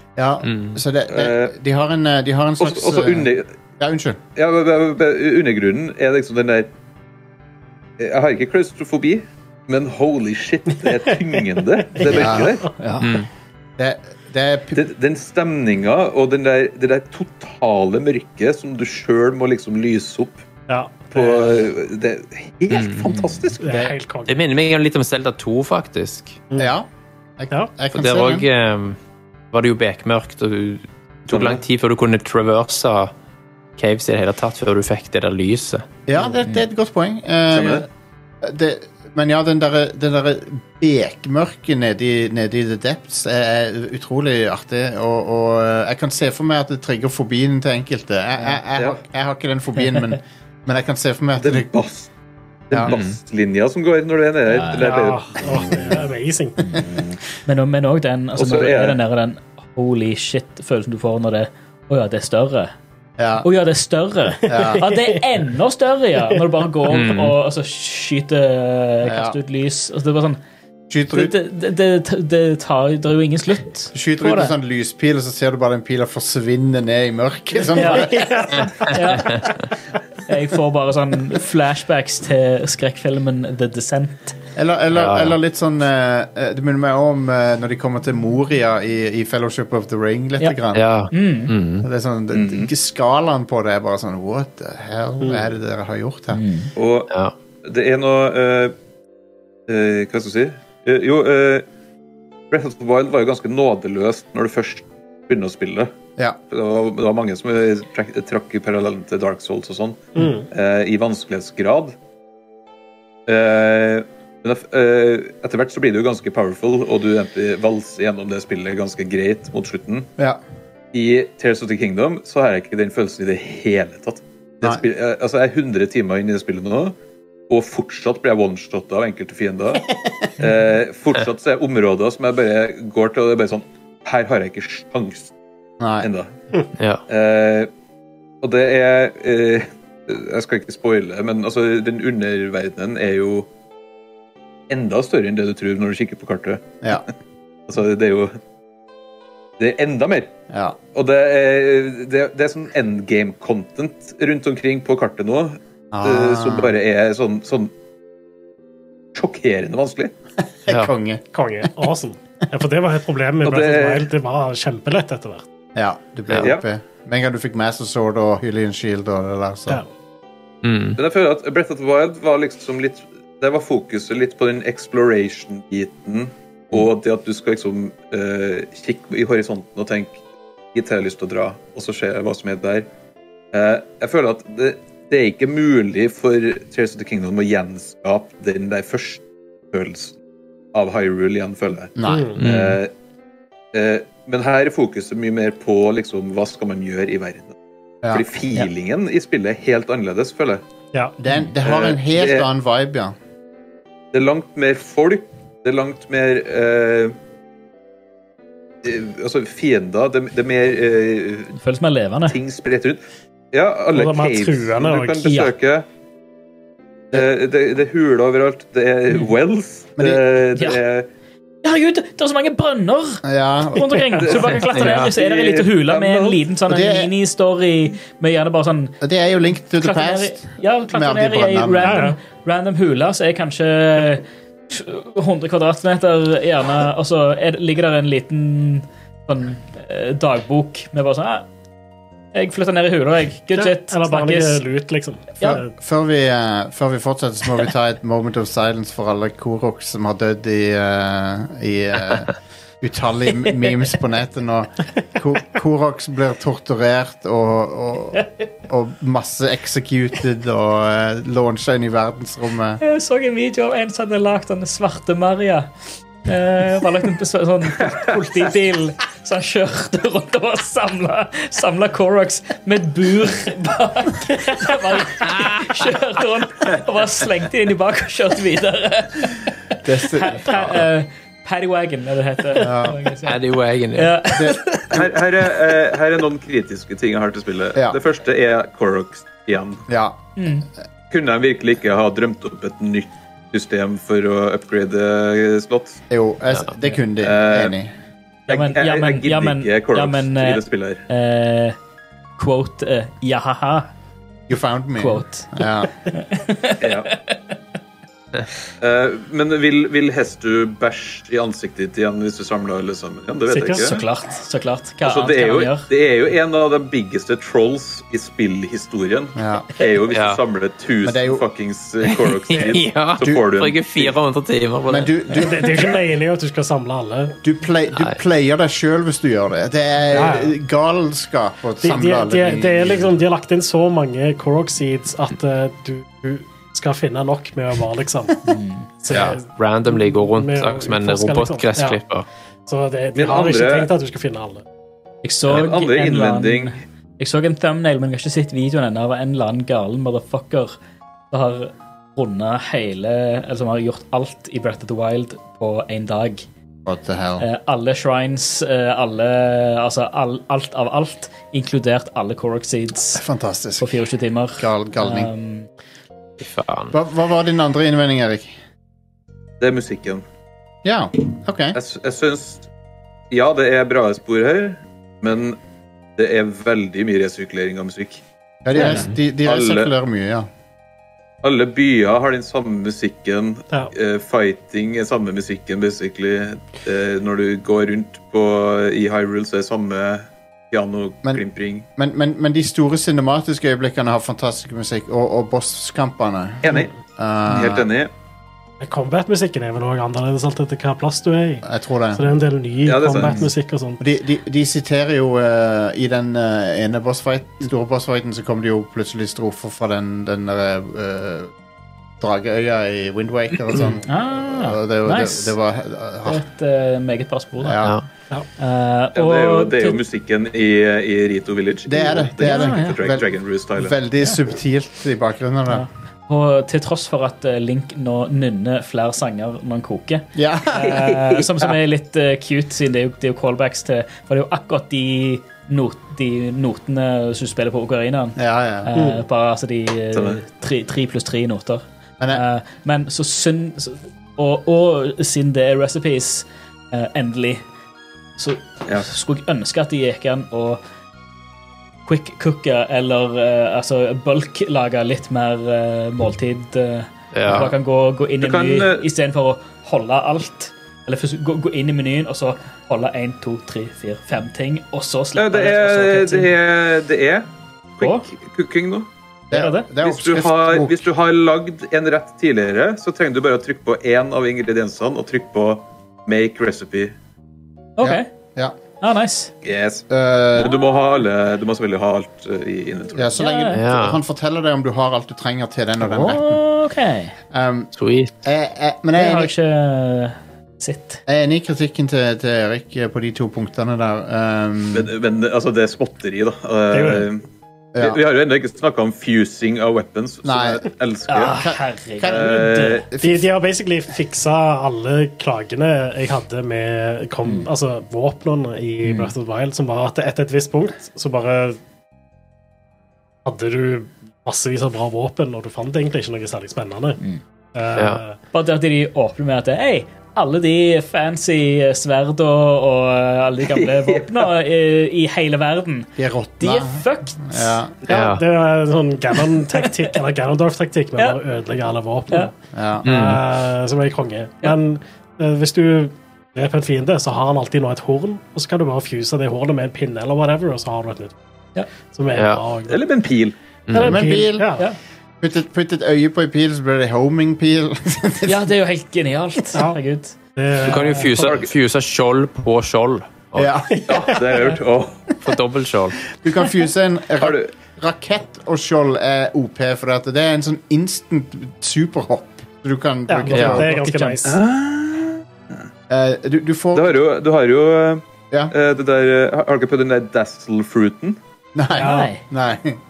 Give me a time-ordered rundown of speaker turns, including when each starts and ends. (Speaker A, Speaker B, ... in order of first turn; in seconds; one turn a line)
Speaker A: 0.1-4.2
Speaker B: 0.4-0.8
Speaker C: 1.1-1.6
Speaker C: 2.6-3.5
Speaker C: 4.4-6.7
Speaker C: 8.0-12.7
Speaker D: 11.9-12.5
Speaker A: 12.1-12.6
Speaker E: 12.8-13.1
Speaker B: 13.0-13.3
Speaker A: 13.8-14.8
Speaker C: 14.7-20.4
Speaker D: 20.7-21.6
Speaker C: 21.1-23.9
Speaker B: 22.7-23.1
Speaker D: 23.6-24.4
Speaker B: 24.3-26.4
Speaker A: 26.6-26.9
Speaker A: 27.4-28.4
Speaker B: 27.9-29.0
Speaker B: 29.5-33.1
Speaker C: 31.3-31.6
Speaker B: 33.8-35.9
Speaker A: 36.1-37.9
Speaker C: 37.5-37.9
Speaker A: 38.4-51.7
Speaker C: 51.4-52.1
Speaker C: 52.7-56.0
Speaker B: 52.9-53.2
Speaker E: 54.5-54.9
Speaker D: 54.8-56.6
Speaker E: 57.5-62.7
Speaker C: 58.4-59.0
Speaker A: 63.2-63.5
Speaker E: 63.4-70.4
Speaker A: 64.5-64.8
Speaker D: 64.5-65.2
Speaker B: 66.9-67.3
Speaker A: 69.0-69.4
Speaker A: 70.9-71.3
Speaker E: 71.1-74.5
Speaker A: 73.9-78.6
Speaker E: 77.8-79.5
Speaker D: 78.0-78.6
Speaker B: 78.9-79.5
Speaker E: 80.3-84.4
Speaker A: 84.5-90.9
Speaker B: 84.9-85.3
Speaker B: 90.7-91.9
Speaker E: 91.1-91.5
Speaker A: 91.8-96.4
Speaker C: 92.3-92.7
Speaker D: 95.2-95.5
Speaker E: 96.3-96.7
Speaker C: 96.8-97.1
Speaker C: 97.6-98.7
Speaker C: 99.7-101.6
Speaker C: 102.5-106.0
Speaker C: 106.5-111.9
Speaker D: 110.2-110.5
Speaker C: 113.3-120.1
Speaker C: 120.9-127.0
Speaker C: 127.5-135.3
Speaker A: 135.8-136.1
Speaker C: 136.0-136.3
Speaker C: 137.1-137.7
Speaker C: 138.4-143.5
Speaker C: 144.7-146.9
Speaker C: 147.7-148.4
Speaker C: 149.6-150.3
Speaker A: 150.5-150.8
Speaker C: 150.9-157.7
Speaker A: 155.9-156.7
Speaker C: 159.1-160.1
Speaker A: 160.7-161.2
Speaker D: 161.3-165.4
Speaker C: 163.4-164.1
Speaker A: 165.8-169.8
Speaker B: 170.6-171.0
Speaker C: 171.0-180.2
Speaker C: 180.7-182.9
Speaker C: 183.5-190.2
Speaker C: 190.7-192.9
Speaker A: 192.0-192.3
Speaker D: 192.1-192.4
Speaker B: 192.4-192.8
Speaker C: 193.7-197.6
Speaker C: 198.1-200.6
Speaker A: 201.2-203.1
Speaker C: 201.6-202.5
Speaker C: 204.1-207.1
Speaker C: 208.8-211.6
Speaker E: 211.6-212.4
Speaker C: 212.3-215.8
Speaker D: 213.9-215.3
Speaker E: 215.2-215.5
Speaker C: 217.1-221.1
Speaker E: 221.6-229.0
Speaker A: 223.2-224.2
Speaker C: 224.2-226.4
Speaker B: 224.6-225.1
Speaker A: 226.7-227.1
Speaker A: 229.0-232.1
Speaker E: 229.8-241.5
Speaker D: 231.8-232.1
Speaker E: 242.3-244.6
Speaker D: 243.5-245.7
Speaker A: 245.4-262.8
Speaker E: 262.8-265.7
Speaker E: 266.2-284.9
Speaker A: 279.8-280.8
Speaker A: 282.6-283.0
Speaker B: 283.2-284.3
Speaker A: 284.3-285.0
Speaker C: 284.9-289.9
Speaker A: 289.9-290.2
Speaker E: 290.4-290.7
Speaker C: 291.1-296.0
Speaker A: 296.1-297.9
Speaker C: 297.2-297.8
Speaker C: 298.5-301.1
Speaker E: 298.5-301.8
Speaker E: 302.4-303.9
Speaker A: 304.5-305.9
Speaker E: 305.0-307.6
Speaker C: 306.8-307.1
Speaker C: 308.8-314.0
Speaker E: 313.5-315.9
Speaker C: 315.0-324.1
Speaker A: 319.4-319.7
Speaker B: 320.1-320.4
Speaker A: 321.0-321.4
Speaker B: 322.1-325.2
Speaker A: 324.9-325.7
Speaker D: 325.3-327.4
Speaker A: 327.4-333.1
Speaker D: 330.1-330.5
Speaker D: 331.8-338.4
Speaker E: 338.4-338.9
Speaker D: 339.0-342.0
Speaker B: 339.1-342.3
Speaker D: 342.7-344.6
Speaker C: 343.1-343.9
Speaker E: 345.2-350.8
Speaker C: 345.5-346.8
Speaker E: 351.3-356.4
Speaker A: 356.9-357.5
Speaker E: 357.4-363.2
Speaker A: 363.1-364.0
Speaker E: 363.8-365.7
Speaker A: 364.6-365.3
Speaker B: 366.4-366.9
Speaker A: 366.9-368.5
Speaker C: 369.6-370.2
Speaker A: 370.8-371.8
Speaker C: 371.7-372.7
Speaker C: 373.3-375.6
Speaker C: 376.2-378.2
Speaker A: 378.6-380.5
Speaker C: 378.7-379.9
Speaker C: 381.4-391.9
Speaker A: 392.0-397.9
Speaker C: 396.6-396.9
Speaker C: 397.5-398.1
Speaker D: 398.8-404.0
Speaker A: 401.6-402.3
Speaker C: 402.8-403.5
Speaker A: 404.0-411.5
Speaker A: 412.2-416.4
Speaker E: 414.1-415.5
Speaker E: 416.2-417.8
Speaker A: 417.6-418.0
Speaker E: 418.6-420.0
Speaker C: 419.1-423.9
Speaker A: 421.9-425.9
Speaker E: 422.4-423.0
Speaker E: 425.7-447.6
Speaker A: 430.3-431.1
Speaker C: 430.9-431.4
Speaker A: 438.4-438.9
Speaker D: 438.9-439.2
Speaker C: 440.1-440.4
Speaker E: 448.4-450.8
Speaker E: 452.1-466.5
Speaker B: 457.3-457.7
Speaker C: 458.4-459.1
Speaker C: 465.4-467.5
Speaker C: 468.0-469.1
Speaker E: 468.0-468.2
Speaker A: 469.5-471.0
Speaker E: 469.5-469.9
Speaker C: 470.0-477.1
Speaker E: 478.0-478.3
Speaker A: 478.0-478.8
Speaker E: 479.0-479.5
Speaker C: 479.6-483.3
Speaker A: 480.1-480.8
Speaker A: 483.1-486.6
Speaker E: 483.4-483.8
Speaker B: 483.7-484.2
Speaker E: 486.0-487.3
Speaker A: 487.5-489.5
Speaker B: 487.9-488.3
Speaker E: 489.2-491.2
Speaker A: 491.3-495.1
Speaker C: 494.9-497.4
Speaker D: 496.9-497.3
Speaker A: 497.9-498.2
Speaker C: 498.0-501.6
Speaker A: 500.4-500.8
Speaker E: 501.3-503.1
Speaker A: 501.4-503.5
Speaker C: 502.2-503.1
Speaker D: 503.2-511.8
Speaker E: 507.4-507.7
Speaker E: 509.0-509.3
Speaker D: 513.5-517.2
Speaker D: 517.8-518.4
Speaker B: 517.9-518.2
Speaker E: 518.5-527.8
Speaker C: 523.6-524.5
Speaker A: 526.2-528.0
Speaker B: 528.1-528.4
Speaker D: 528.1-532.5
Speaker E: 529.7-530.0
Speaker A: 532.7-533.1
Speaker B: 533.0-533.4
Speaker D: 533.0-541.4
Speaker D: 542.1-543.0
Speaker B: 542.3-542.6
Speaker C: 542.9-543.5
Speaker B: 543.9-544.2
Speaker D: 543.9-544.8
Speaker A: 544.0-544.8
Speaker A: 545.4-548.6
Speaker E: 548.5-550.3
Speaker D: 549.7-550.0
Speaker D: 550.5-551.5
Speaker B: 550.8-553.8
Speaker C: 551.2-551.7
Speaker A: 553.5-554.4
Speaker D: 554.1-554.4
Speaker C: 554.1-555.3
Speaker B: 555.4-556.2
Speaker A: 556.4-563.9
Speaker C: 557.4-557.7
Speaker D: 563.3-564.6
Speaker B: 563.5-563.9
Speaker E: 563.6-564.5
Speaker C: 564.5-565.4
Speaker A: 566.1-567.2
Speaker C: 566.9-571.4
Speaker A: 571.8-573.0
Speaker E: 572.0-572.4
Speaker D: 572.0-572.3